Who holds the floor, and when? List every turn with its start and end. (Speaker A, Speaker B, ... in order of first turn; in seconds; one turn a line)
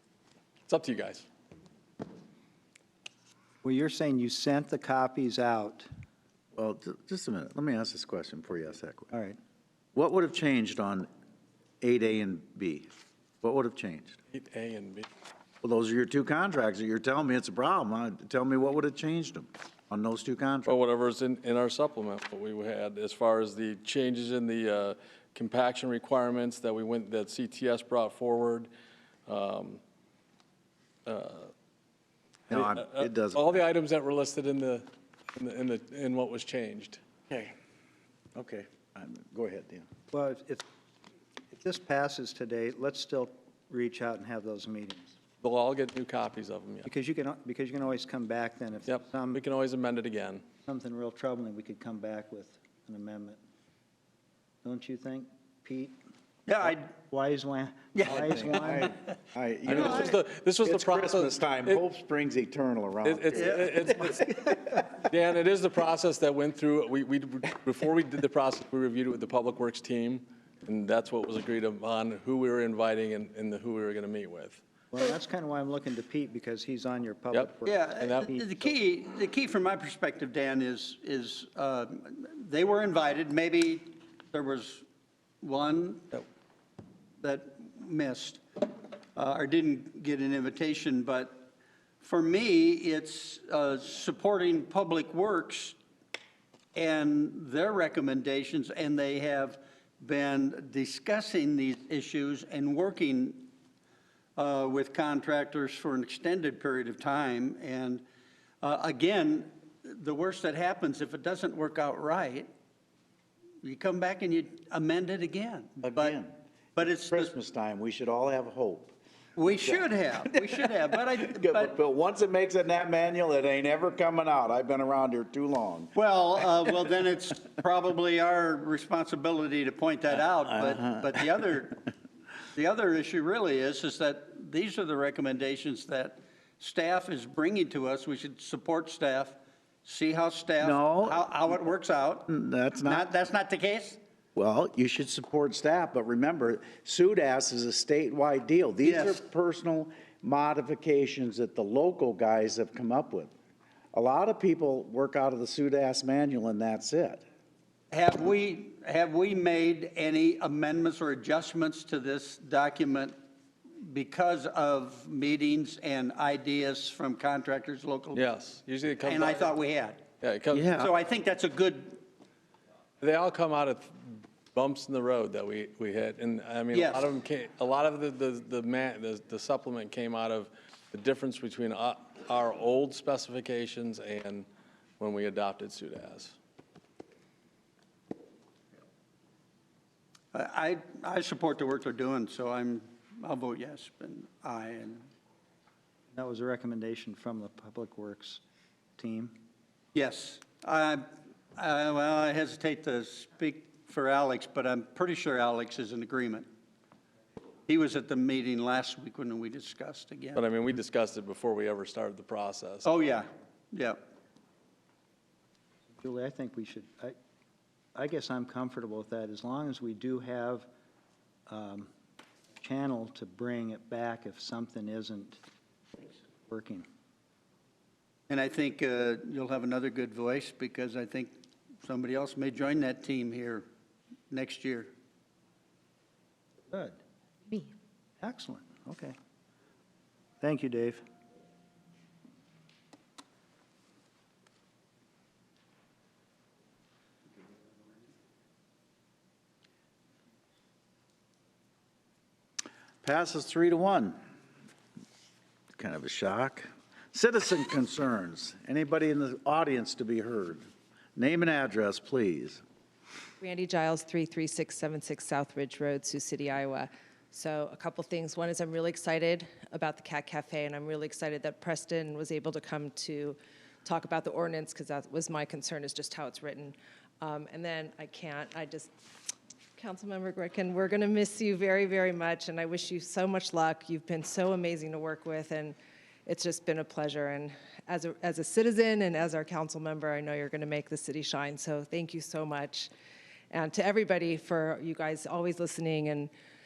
Speaker A: 0.7-1.3
Speaker B: 3.6-5.9
Speaker C: 6.6-9.1
Speaker B: 9.1-9.4
Speaker C: 9.9-11.1
Speaker C: 11.8-12.9
Speaker C: 13.4-14.2
Speaker A: 14.3-15.1
Speaker C: 15.6-20.7
Speaker A: 20.7-28.7
Speaker A: 29.3-29.8
Speaker A: 31.1-31.5
Speaker C: 32.5-33.6
Speaker A: 32.5-37.0
Speaker C: 38.4-39.9
Speaker B: 40.1-40.6
Speaker B: 41.5-45.2
Speaker A: 45.4-46.9
Speaker B: 46.9-49.4
Speaker A: 48.9-50.4
Speaker B: 50.7-53.4
Speaker B: 54.6-56.0
Speaker D: 56.5-56.9
Speaker B: 56.9-59.0
Speaker D: 57.9-58.9
Speaker C: 58.1-63.7
Speaker A: 59.7-61.8
Speaker A: 63.0-74.6
Speaker D: 63.3-63.6
Speaker B: 74.9-78.7
Speaker A: 77.3-78.3
Speaker D: 77.7-84.9
Speaker D: 85.4-86.2
Speaker D: 87.2-88.6
Speaker D: 89.2-91.5
Speaker D: 92.0-95.8
Speaker D: 96.8-103.5
Speaker D: 104.4-108.0
Speaker D: 108.6-112.5
Speaker D: 113.6-116.2
Speaker C: 115.8-116.4
Speaker D: 116.8-117.3
Speaker C: 117.1-118.9
Speaker D: 119.4-121.8
Speaker C: 119.5-125.9
Speaker D: 126.0-131.8
Speaker C: 130.5-131.1
Speaker D: 132.5-142.3
Speaker C: 140.6-141.2
Speaker C: 142.3-143.1
Speaker D: 142.8-144.0
Speaker C: 144.4-153.3
Speaker D: 148.8-149.2
Speaker C: 153.9-157.2
Speaker D: 157.9-163.2
Speaker D: 163.8-168.3
Speaker A: 168.1-169.6
Speaker D: 169.0-170.1
Speaker A: 170.2-170.8
Speaker C: 170.5-170.9
Speaker D: 170.8-172.0
Speaker A: 173.0-184.5
Speaker D: 176.7-177.1
Speaker A: 185.0-186.4
Speaker D: 190.3-195.1
Speaker B: 196.1-198.4
Speaker B: 199.0-199.3
Speaker D: 199.9-206.5
Speaker D: 207.7-210.4
Speaker A: 210.4-212.9
Speaker D: 212.8-214.0
Speaker B: 216.0-217.2
Speaker B: 217.9-220.7
Speaker B: 221.5-221.9
Speaker B: 222.6-225.4
Speaker B: 226.4-226.9
Speaker D: 228.3-233.7
Speaker D: 234.3-234.9
Speaker B: 236.7-237.0
Speaker B: 238.2-239.2
Speaker B: 240.4-241.0
Speaker C: 253.0-254.2
Speaker C: 255.8-262.6
Speaker E: 263.4-278.9
Speaker E: 279.8-292.9
Speaker E: 293.5-296.3